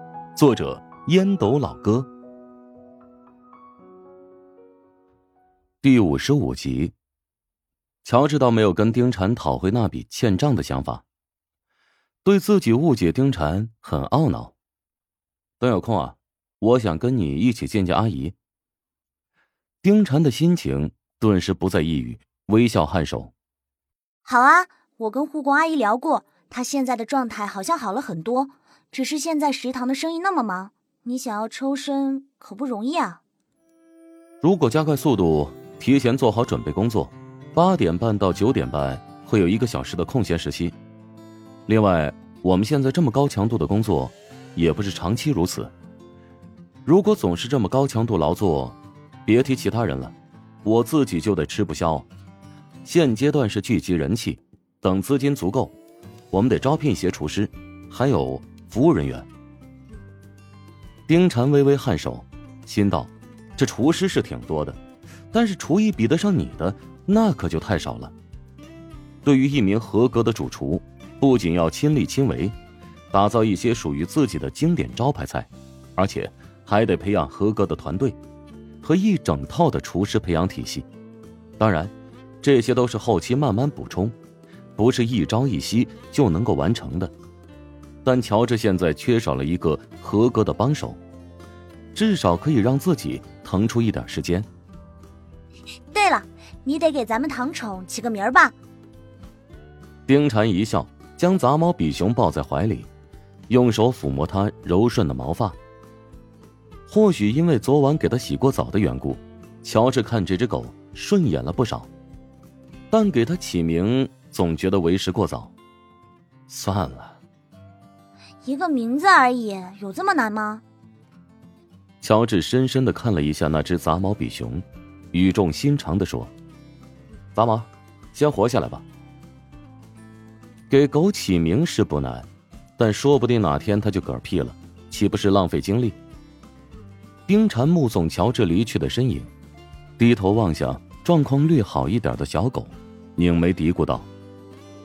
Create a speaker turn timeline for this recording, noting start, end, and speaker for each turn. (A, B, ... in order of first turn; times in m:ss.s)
0:00.3-0:02.1 A
0:05.8-0:06.9 A
0:08.0-0:11.0 A
0:12.2-0:14.5 A
0:15.6-0:18.3 A
0:19.8-0:23.3 A
0:24.3-0:33.2 B
0:34.4-0:40.8 A
0:41.7-0:45.7 A
0:46.8-0:52.1 A
0:52.8-0:55.7 A
0:56.3-0:59.3 A
1:01.1-1:04.8 A
1:05.3-1:08.1 A
1:09.2-1:12.6 A
1:13.1-1:18.2 A
1:18.8-1:20.9 A
1:21.6-1:24.2 A
1:24.8-1:27.1 A
1:28.0-1:31.0 A
1:31.9-1:34.5 A
1:35.9-1:38.6 B
1:40.1-1:42.9 A
1:43.5-1:45.6 A
1:46.9-1:51.9 A
1:52.9-1:55.5 A
1:56.5-1:57.2 A
1:58.4-2:00.6 B
2:02.0-2:06.3 A
2:07.3-2:08.8 A
2:10.7-2:12.3 A
2:12.8-2:16.0 A
2:17.3-2:19.3 A
2:20.0-2:24.1 A